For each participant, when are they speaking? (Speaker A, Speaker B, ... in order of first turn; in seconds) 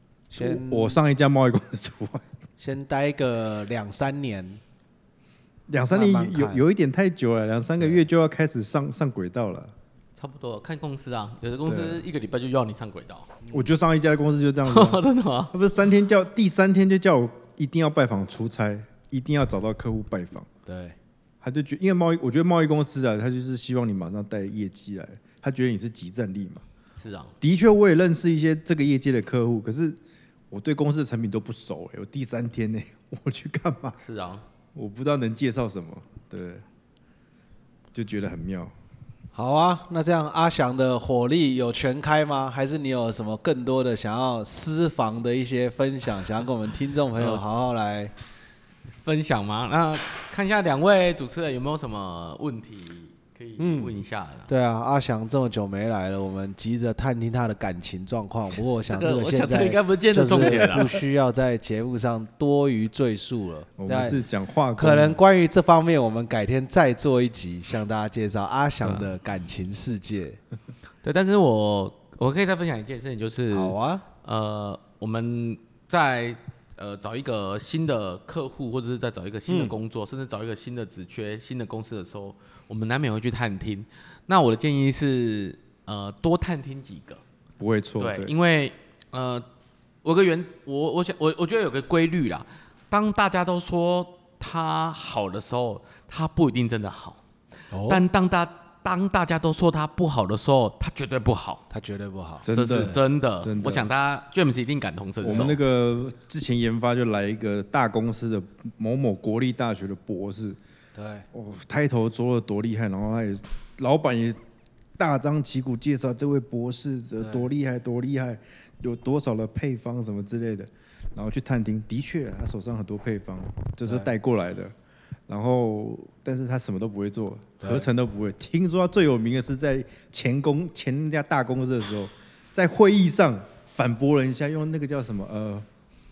Speaker A: 0.3-2.3, 5.7-9.7, 11.7-12.0, 13.5-20.5, 21.4-26.6, 27.4-30.0, 30.5-34.0, 34.7-36.6, 37.9-38.7, 60.4-60.8, 63.8-65.2, 87.6-88.3, 102.4-103.9, 105.2-110.6, 111.3-114.4, 115.0-124.7, 125.3-135.7
Speaker B: 0.3-1.0, 2.6-4.6, 5.9-6.6, 20.6-20.9, 39.3-48.1, 53.6-53.9, 54.5-64.2, 64.8-70.4, 73.5-74.0, 79.5-79.7, 97.7-98.0, 101.7-103.0, 105.2-105.5, 110.9-111.2, 117.2-117.5, 123.8-124.1, 127.6-127.9
Speaker C: 10.2-13.3, 14.6-15.5, 27.0-27.3, 34.0-34.4, 49.0-54.5, 58.9-61.0, 71.0-87.2, 88.0-89.4, 90.0-97.2, 97.8-101.6, 102.5-105.6